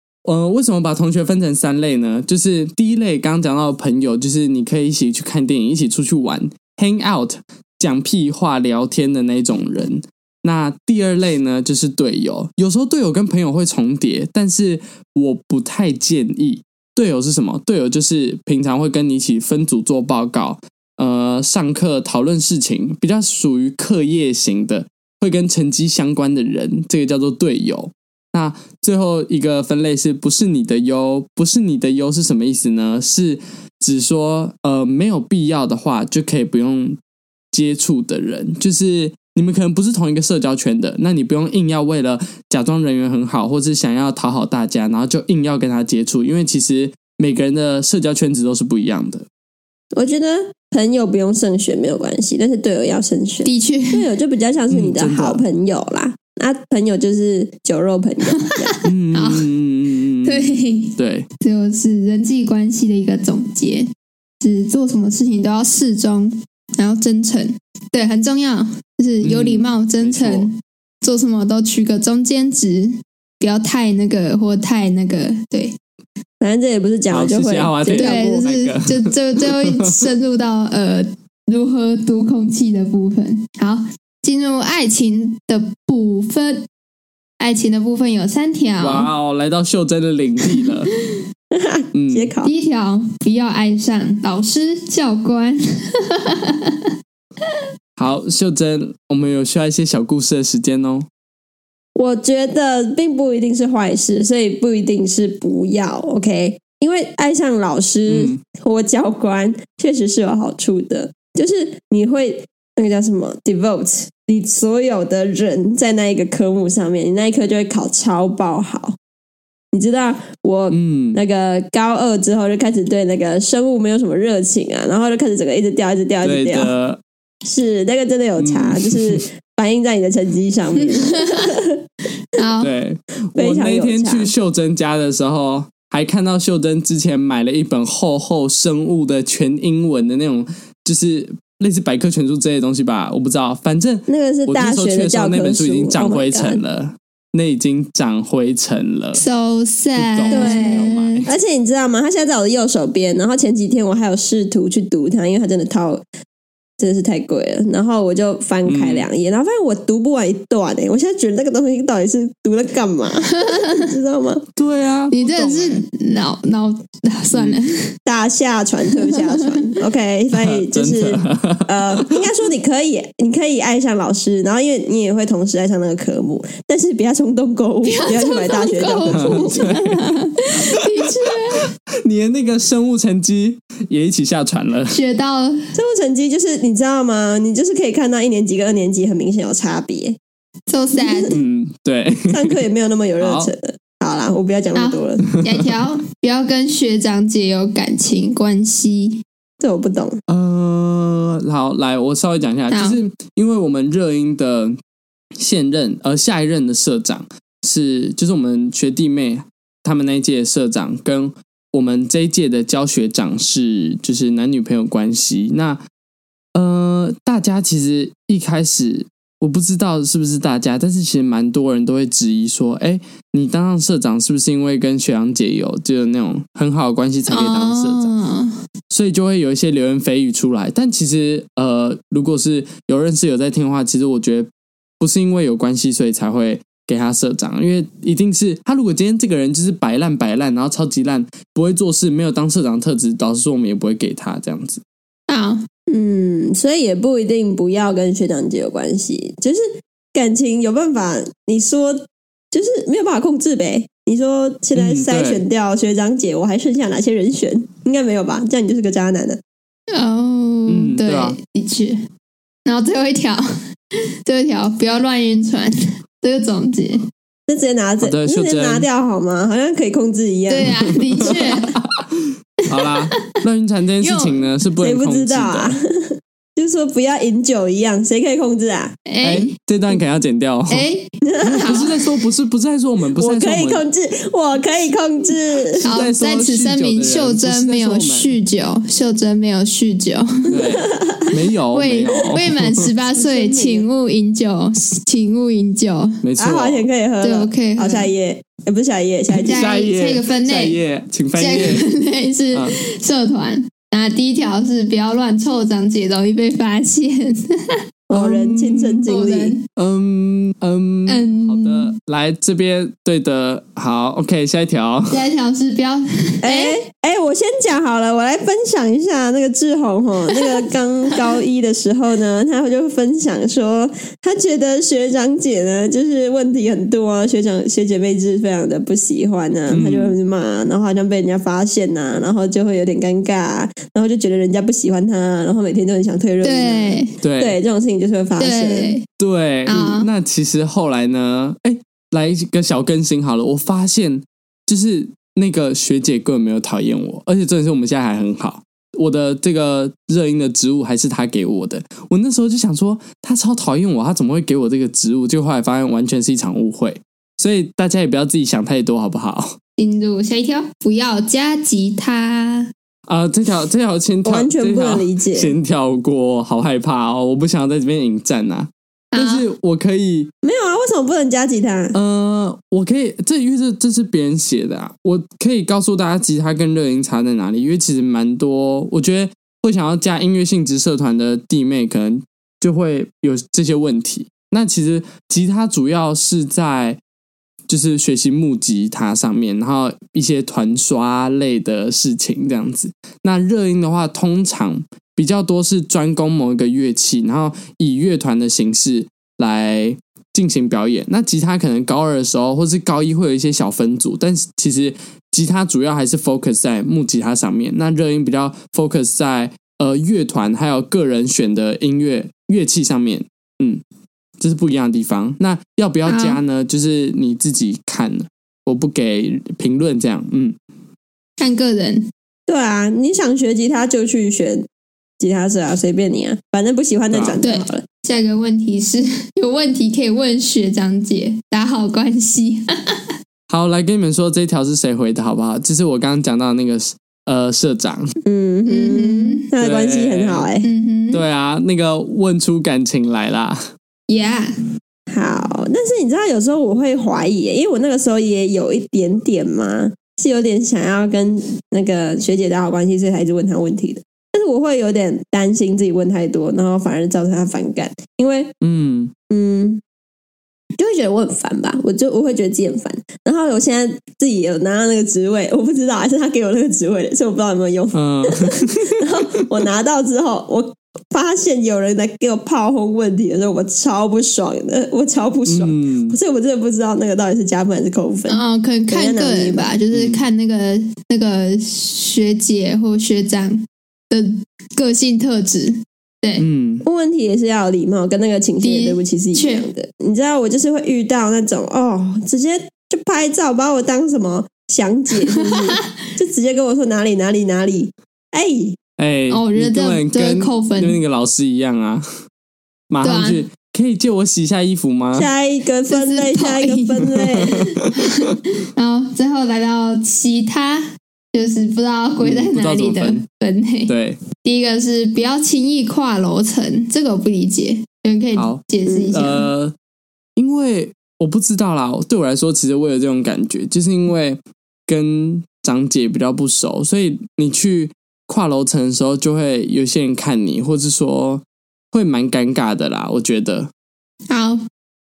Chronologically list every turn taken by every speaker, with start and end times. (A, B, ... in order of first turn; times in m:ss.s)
0:00.2-0:37.0 A
0:37.5-0:49.3 A
0:49.9-0:58.8 B
0:53.4-0:54.0 C
0:54.7-0:55.4 A
0:58.4-0:59.5 C
0:58.8-1:01.3 A
1:00.2-1:03.9 C
1:04.4-1:15.8 C
1:09.2-1:10.5 A
1:16.4-1:18.4 B
1:17.1-1:20.1 A
1:18.0-1:26.6 C
1:27.4-1:29.1 C
1:28.8-1:30.9 A
1:31.5-1:32.5 B
1:31.9-1:32.3 A
1:32.4-1:36.9 C
1:38.0-1:41.1 A
1:42.0-1:59.0 B
1:48.1-1:48.4 A
1:59.7-2:06.7 B
2:00.7-2:01.2 A
2:06.2-2:07.0 A
2:07.4-2:11.8 B
2:08.4-2:09.2 A
2:10.9-2:11.5 C
2:12.3-2:12.7 C
2:12.6-2:29.2 A
2:13.4-2:14.3 B
2:24.1-2:26.6 B
2:29.2-2:31.3 C
2:30.0-2:31.3 A
2:30.3-2:36.0 B
2:36.8-2:44.4 B
2:38.7-2:39.1 A
2:43.4-2:43.8 C
2:44.6-2:45.8 A
2:45.1-2:48.0 C
2:47.3-2:47.6 A
2:48.1-2:59.8 B
2:49.0-2:49.4 C
2:50.3-2:52.1 A
2:57.9-3:01.7 C
2:59.1-3:00.0 A
3:00.7-3:05.0 A
3:04.9-3:05.7 C
3:05.7-3:10.2 B
3:10.7-3:11.4 C
3:11.0-3:11.3 B
3:11.3-3:12.6 A
3:12.3-3:15.3 B
3:13.2-3:13.5 A
3:14.8-3:19.2 C
3:15.3-3:15.7 A
3:19.6-3:20.2 B
3:20.3-3:24.8 A
3:22.7-3:23.0 C
3:25.4-3:35.8 A
3:36.6-3:48.1 A
3:47.3-3:48.6 C
3:48.9-3:54.5 A
3:55.0-4:04.8 A
4:05.3-4:05.7 C
4:05.9-4:19.4 B
4:14.8-4:15.4 A
4:19.9-4:22.0 C
4:20.7-4:21.4 A
4:22.6-4:23.5 C
4:24.2-4:27.0 C
4:27.5-4:31.3 B
4:28.0-4:28.9 A
4:30.5-4:31.7 C
4:31.2-4:35.8 A
4:32.7-4:33.4 C
4:34.0-4:34.5 C
4:34.8-4:39.0 B
4:39.1-4:39.5 C
4:39.2-4:40.9 A
4:40.7-4:42.1 C
4:41.2-4:41.9 B
4:41.4-4:43.8 A
4:43.2-4:46.0 B
4:45.8-4:48.3 A
4:45.8-4:50.6 C
4:50.5-4:52.9 A
4:50.8-4:51.3 B
4:51.7-4:56.2 C
4:53.1-4:53.9 B
4:56.2-4:56.9 A
4:56.4-4:59.6 B
4:57.2-4:58.1 C
4:59.4-5:01.8 A
4:59.4-5:00.8 C
5:01.4-5:07.8 C
5:08.1-5:09.6 B
5:08.1-5:09.0 A
5:09.1-5:09.6 C
5:09.8-5:15.3 A
5:11.1-5:12.0 C
5:15.1-5:16.8 C
5:16.4-5:39.0 B
5:20.4-5:20.6 C
5:29.7-5:30.2 A
5:36.4-5:37.1 C
5:37.2-5:37.6 A
5:38.4-5:39.1 C
5:39.2-5:59.6 A
5:39.7-5:40.1 C
5:59.8-6:02.7 C
6:03.1-6:10.3 A
6:04.2-6:05.6 B
6:09.1-6:09.4 C
6:10.4-6:12.0 B
6:11.9-6:27.0 A
6:27.7-6:53.8 A
6:54.4-7:00.6 A
6:56.1-6:56.4 C
7:01.4-7:02.1 C
7:02.5-7:04.7 B
7:05.2-7:07.8 B
7:07.1-7:07.4 A
7:07.4-7:13.1 C
7:13.5-7:18.2 A
7:18.2-7:20.7 B
7:18.7-7:19.5 C
7:19.6-7:20.5 A
7:20.6-7:21.2 C
7:21.1-7:23.6 A
7:24.1-7:24.6 C
7:25.1-7:38.5 B
7:38.6-7:39.1 A
7:39.3-7:39.8 B
7:40.8-7:59.7 B
7:47.9-7:49.0 A
7:55.5-7:56.2 A
7:58.3-8:06.5 C
7:59.9-8:00.2 A
8:06.4-8:06.8 A
8:06.8-8:18.8 B
8:08.6-8:09.7 C
8:15.3-8:15.9 C
8:19.0-8:22.1 A
8:19.3-8:21.0 C
8:22.9-8:25.3 A
8:23.0-8:23.4 C
8:25.2-8:27.7 B
8:25.9-8:27.2 C
8:27.8-8:28.2 A
8:27.8-8:39.5 C
8:32.2-8:33.2 A
8:33.9-8:34.2 A
8:38.4-8:39.8 A
8:38.9-8:39.2 B
8:40.4-8:53.7 A
8:54.3-8:54.6 C